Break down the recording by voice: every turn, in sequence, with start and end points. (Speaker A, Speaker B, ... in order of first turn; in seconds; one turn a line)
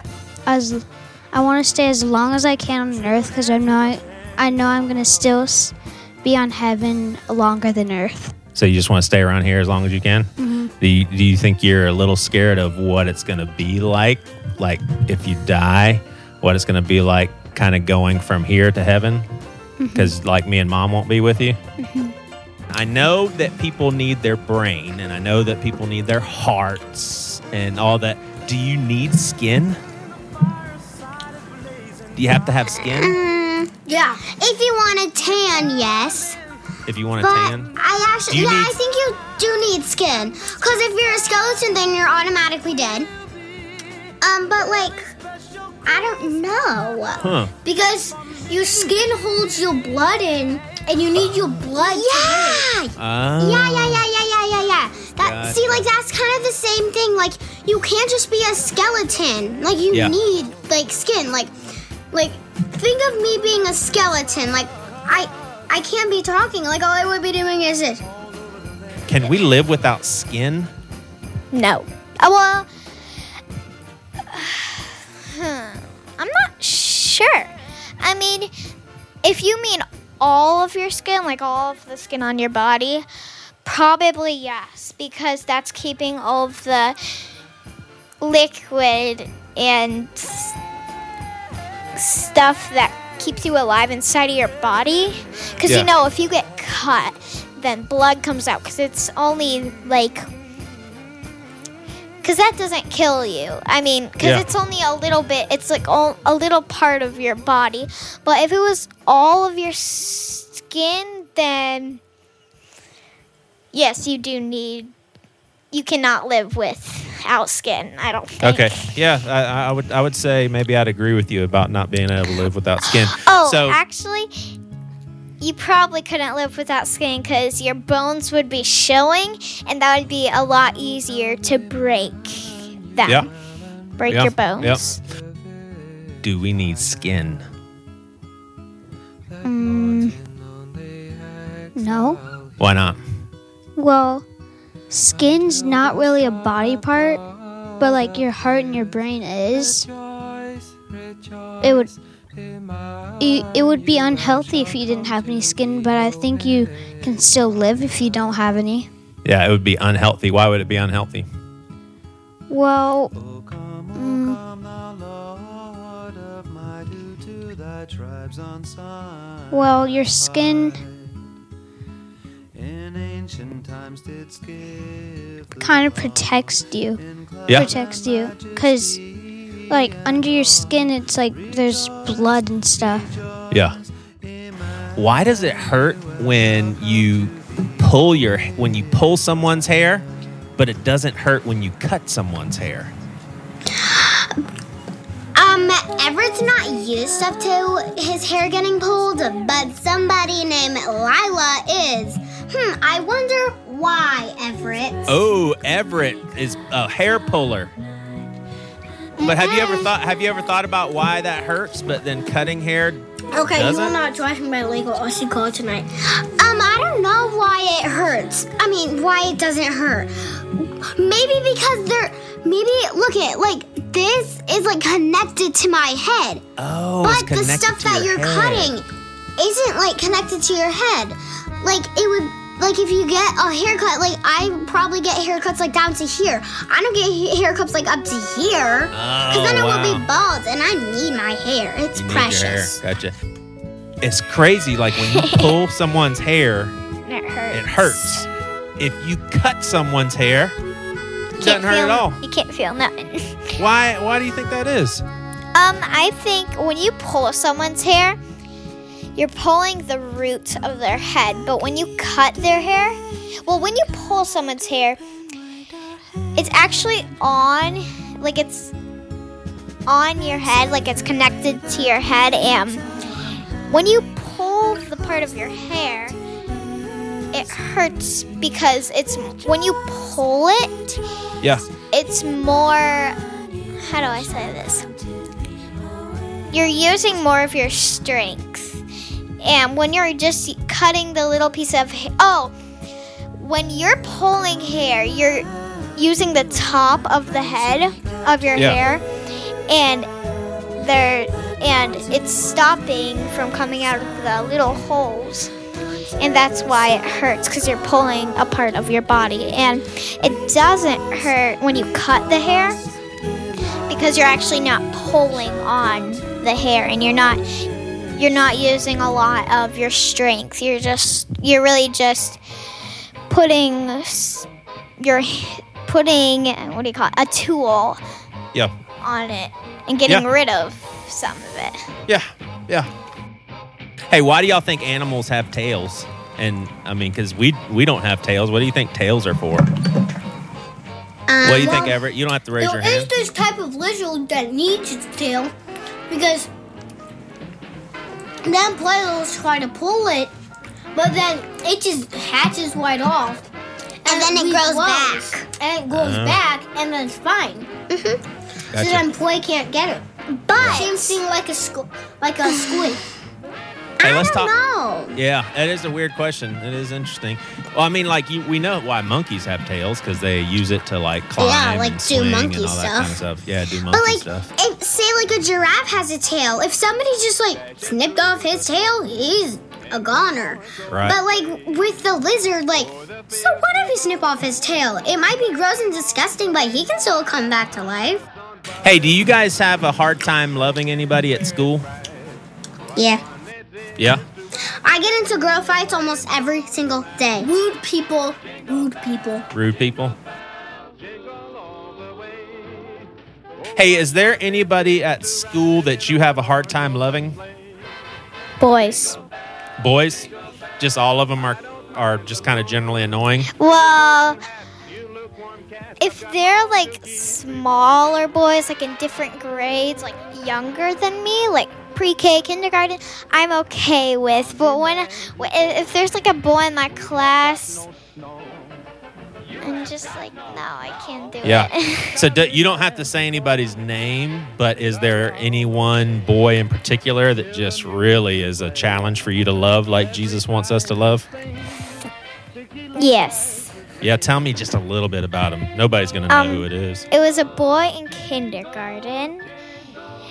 Speaker A: 0.5-8.3
Speaker B: 8.5-19.3
Speaker A: 10.4-10.7
Speaker A: 19.8-20.1
Speaker B: 19.9-21.6
Speaker A: 21.8-22.1
Speaker B: 22.7-29.8
Speaker B: 32.1-33.2
Speaker C: 32.8-36.4
Speaker D: 33.9-34.2
Speaker B: 36.9-37.7
Speaker C: 37.2-43.1
Speaker B: 38.3-38.8
Speaker C: 44.2-45.1
Speaker C: 45.8-47.2
Speaker B: 47.2-47.5
Speaker D: 47.6-52.7
Speaker C: 51.7-61.5
Speaker B: 53.0-54.0
Speaker B: 55.2-55.8
Speaker C: 62.1-68.0
Speaker B: 69.1-70.7
Speaker E: 71.5-72.7
Speaker E: 74.3-78.5
Speaker E: 79.2-83.0
Speaker E: 83.6-87.0
Speaker E: 88.2-90.5
Speaker E: 91.9-100.3
Speaker E: 102.2-112.0
Speaker B: 104.2-104.4
Speaker E: 113.7-114.9
Speaker E: 115.7-118.7
Speaker B: 118.4-123.8
Speaker E: 123.2-124.3
Speaker E: 125.4-133.2
Speaker E: 134.0-135.0
Speaker B: 134.1-134.8
Speaker B: 136.2-137.4
Speaker A: 139.4-140.2
Speaker A: 141.8-142.2
Speaker B: 142.6-143.0
Speaker A: 143.8-144.2
Speaker A: 144.9-147.2
Speaker A: 147.8-149.9
Speaker A: 151.6-151.9
Speaker A: 153.2-158.9
Speaker B: 159.2-161.3
Speaker A: 162.5-163.1
Speaker A: 163.9-164.4
Speaker A: 169.5-170.8
Speaker A: 175.6-179.0
Speaker A: 179.7-183.2
Speaker B: 183.5-183.8
Speaker B: 184.9-190.1
Speaker B: 190.6-192.9
Speaker C: 193.7-194.3
Speaker C: 195.3-205.2
Speaker B: 205.1-207.7
Speaker B: 209.2-213.9
Speaker C: 209.2-209.9
Speaker D: 213.3-215.9
Speaker C: 216.2-226.4
Speaker B: 226.6-228.8
Speaker C: 227.0-242.8
Speaker B: 238.9-240.0
Speaker B: 241.9-243.2
Speaker B: 244.0-246.7
Speaker E: 245.1-245.5
Speaker E: 247.1-248.2
Speaker B: 247.5-248.2
Speaker B: 248.8-250.5
Speaker B: 251.4-252.2
Speaker E: 251.4-253.5
Speaker B: 253.6-255.0
Speaker E: 255.5-258.2
Speaker E: 259.1-265.0
Speaker E: 266.4-268.7
Speaker E: 269.9-272.8
Speaker E: 273.7-276.2
Speaker E: 277.3-281.0
Speaker B: 281.4-281.6
Speaker E: 281.9-283.2
Speaker E: 283.8-284.9
Speaker E: 286.5-288.8
Speaker E: 289.4-292.5
Speaker E: 293.4-299.0
Speaker B: 298.5-298.8
Speaker E: 299.7-300.1
Speaker E: 300.8-305.5
Speaker E: 306.2-312.8
Speaker E: 313.9-317.4
Speaker E: 318.2-322.4
Speaker E: 323.3-324.5
Speaker E: 325.0-328.0
Speaker E: 329.0-331.8
Speaker B: 332.1-332.9
Speaker B: 334.1-339.7
Speaker C: 341.3-342.0
Speaker B: 341.4-343.1
Speaker D: 342.6-345.5
Speaker D: 346.1-346.5
Speaker D: 348.4-350.3
Speaker D: 350.9-353.4
Speaker D: 354.0-357.7
Speaker C: 354.0-355.5
Speaker B: 355.9-356.4
Speaker C: 357.9-358.2
Speaker B: 358.7-359.1
Speaker D: 358.7-360.1
Speaker C: 360.4-361.2
Speaker B: 360.5-360.8
Speaker D: 360.6-363.0
Speaker C: 362.4-363.0
Speaker C: 364.0-365.1
Speaker B: 364.0-364.5
Speaker B: 365.1-374.5
Speaker C: 371.4-373.1
Speaker C: 373.9-388.2
Speaker B: 380.9-381.2
Speaker B: 388.8-391.9
Speaker C: 392.9-393.2
Speaker C: 394.7-397.5
Speaker D: 397.4-399.5
Speaker B: 399.5-400.1
Speaker B: 403.7-407.4
Speaker E: 408.6-409.2
Speaker B: 409.8-413.5
Speaker E: 413.6-414.4
Speaker E: 416.0-427.9
Speaker E: 429.6-432.2
Speaker B: 431.4-441.3
Speaker E: 442.9-443.7
Speaker B: 444.0-447.1
Speaker E: 446.3-449.5